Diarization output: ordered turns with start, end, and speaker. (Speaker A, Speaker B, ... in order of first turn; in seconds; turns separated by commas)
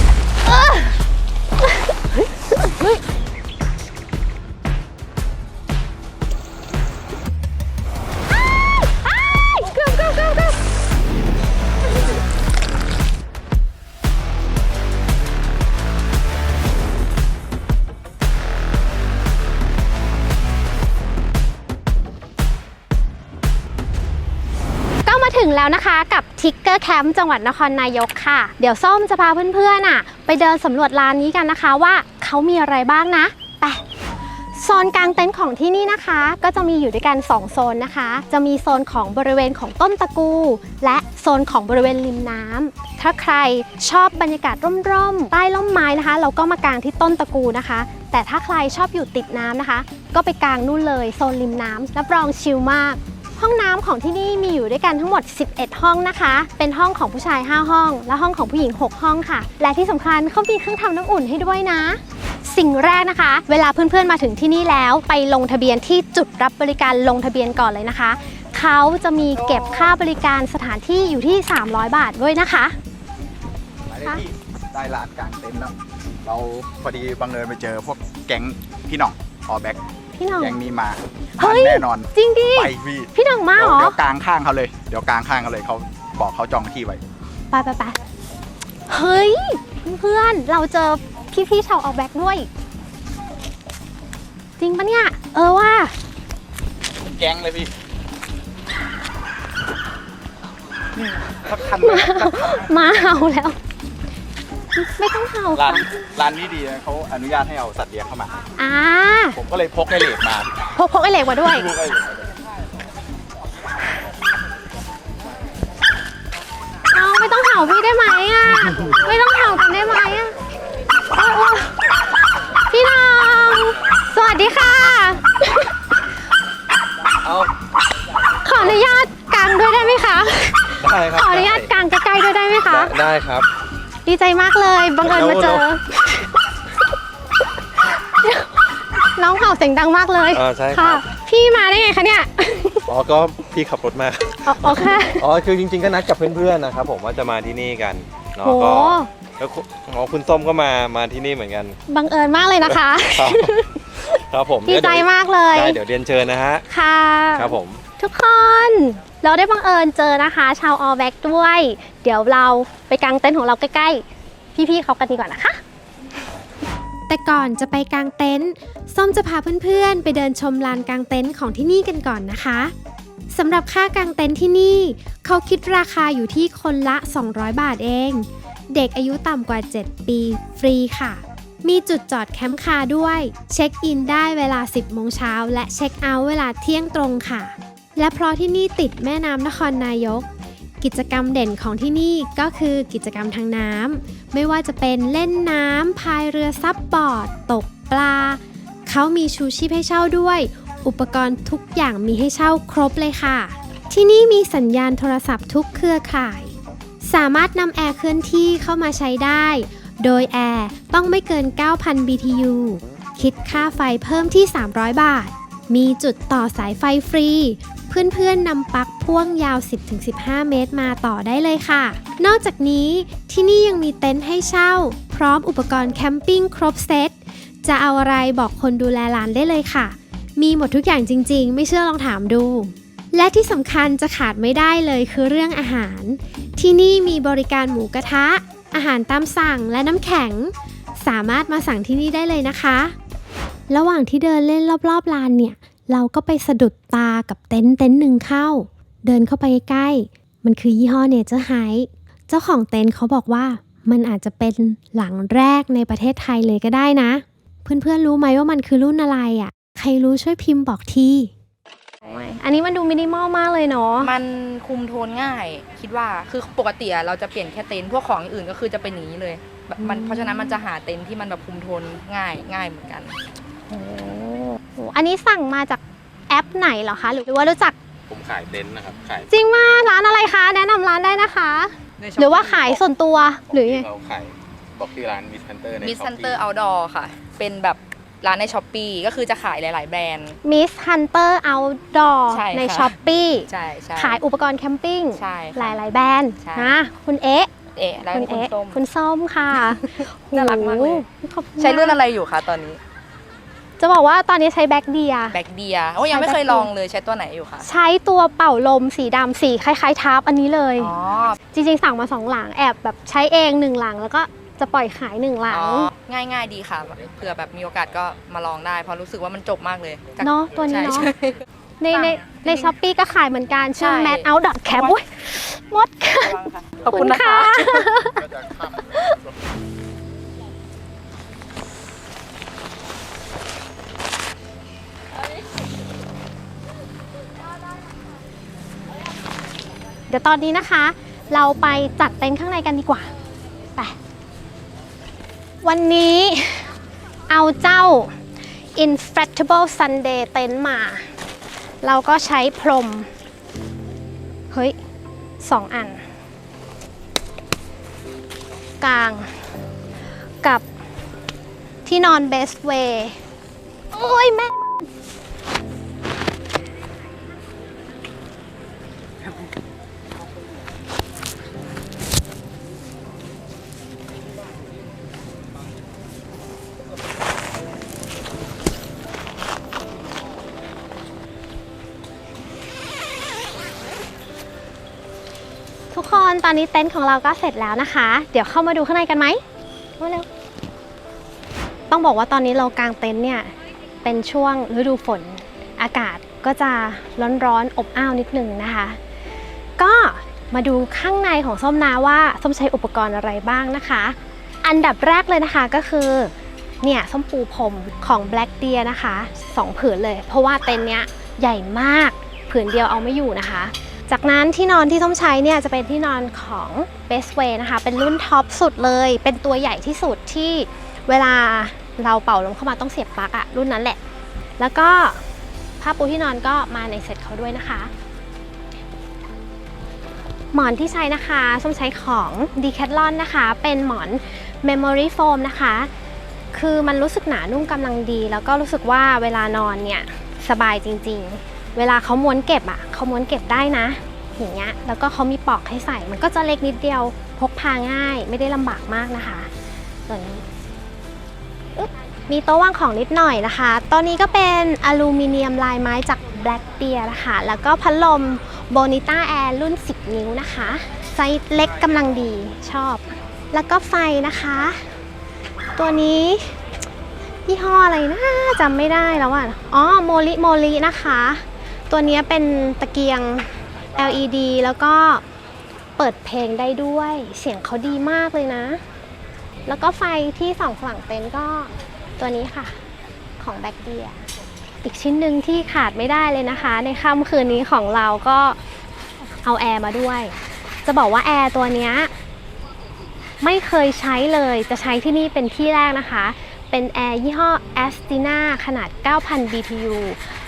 Speaker A: 0.4-1.0, Speaker A: 1.6-3.0, Speaker A: 9.1-10.5, Speaker A: 25.1-33.8, Speaker A: 34.5-72.8, Speaker B: 69.5-69.9, Speaker C: 73.9-79.8, Speaker A: 80.2-80.6, Speaker C: 80.4-87.0, Speaker A: 81.4-84.0, Speaker A: 87.5-88.0, Speaker A: 88.9-92.5, Speaker A: 94.6-95.9, Speaker C: 97.0-97.7, Speaker C: 101.0-102.7, Speaker A: 101.8-103.6, Speaker A: 104.8-105.9, Speaker C: 105.5-108.3, Speaker A: 108.6-109.4, Speaker C: 109.3-110.7, Speaker A: 110.8-111.7, Speaker C: 111.4-112.3, Speaker A: 116.9-120.3, Speaker A: 121.1-121.8, Speaker A: 122.7-125.7, Speaker D: 127.2-127.5, Speaker A: 128.4-132.9, Speaker D: 130.8-131.7, Speaker D: 132.6-133.5, Speaker A: 134.1-136.3, Speaker D: 135.0-135.7, Speaker A: 137.8-142.9, Speaker D: 140.3-141.0, Speaker D: 142.9-151.8, Speaker A: 144.4-145.2, Speaker A: 148.4-149.1, Speaker A: 151.9-153.8, Speaker D: 152.7-153.6, Speaker D: 154.1-156.6, Speaker A: 154.7-155.8, Speaker A: 156.7-164.0, Speaker D: 157.4-157.8, Speaker A: 164.6-165.6, Speaker A: 167.1-172.7, Speaker A: 173.3-190.3, Speaker A: 190.8-242.9, Speaker A: 243.7-261.3, Speaker A: 262.1-264.1, Speaker B: 264.0-273.2, Speaker A: 269.8-270.6, Speaker A: 273.7-277.8, Speaker C: 278.1-279.3, Speaker A: 279.3-283.9, Speaker B: 282.0-282.8, Speaker C: 283.5-286.4, Speaker B: 285.8-290.4, Speaker A: 290.4-297.5, Speaker B: 292.3-292.9, Speaker B: 293.5-294.2, Speaker B: 295.1-295.8, Speaker B: 296.4-296.8, Speaker B: 297.8-298.8, Speaker A: 298.1-302.0, Speaker B: 299.5-301.1, Speaker B: 301.6-302.8, Speaker A: 303.8-305.4, Speaker B: 305.3-307.7, Speaker A: 306.1-306.7, Speaker A: 307.6-310.9, Speaker B: 310.8-311.4, Speaker A: 311.5-315.9, Speaker B: 315.5-322.7, Speaker A: 320.2-321.1, Speaker A: 321.8-326.4, Speaker B: 323.8-324.9, Speaker B: 326.2-327.9, Speaker A: 326.9-328.3, Speaker A: 340.1-343.1, Speaker A: 345.6-346.7, Speaker A: 347.3-348.1, Speaker A: 348.8-351.1, Speaker A: 351.8-353.1, Speaker A: 354.5-354.8, Speaker A: 355.4-356.0, Speaker A: 358.8-359.3, Speaker A: 361.9-363.2, Speaker A: 363.9-364.9, Speaker A: 385.9-389.4, Speaker A: 390.0-390.3, Speaker A: 391.9-393.5, Speaker A: 394.0-399.0, Speaker A: 399.8-406.3, Speaker A: 406.8-424.0, Speaker A: 424.6-425.2, Speaker A: 425.8-427.9, Speaker A: 430.5-435.9, Speaker A: 436.5-449.5, Speaker A: 450.1-450.4, Speaker A: 451.8-464.8, Speaker A: 465.8-466.6, Speaker A: 467.5-475.2, Speaker A: 476.0-478.8, Speaker A: 479.7-482.8, Speaker A: 483.4-484.2, Speaker A: 484.8-488.6, Speaker A: 489.4-492.1, Speaker A: 493.4-500.2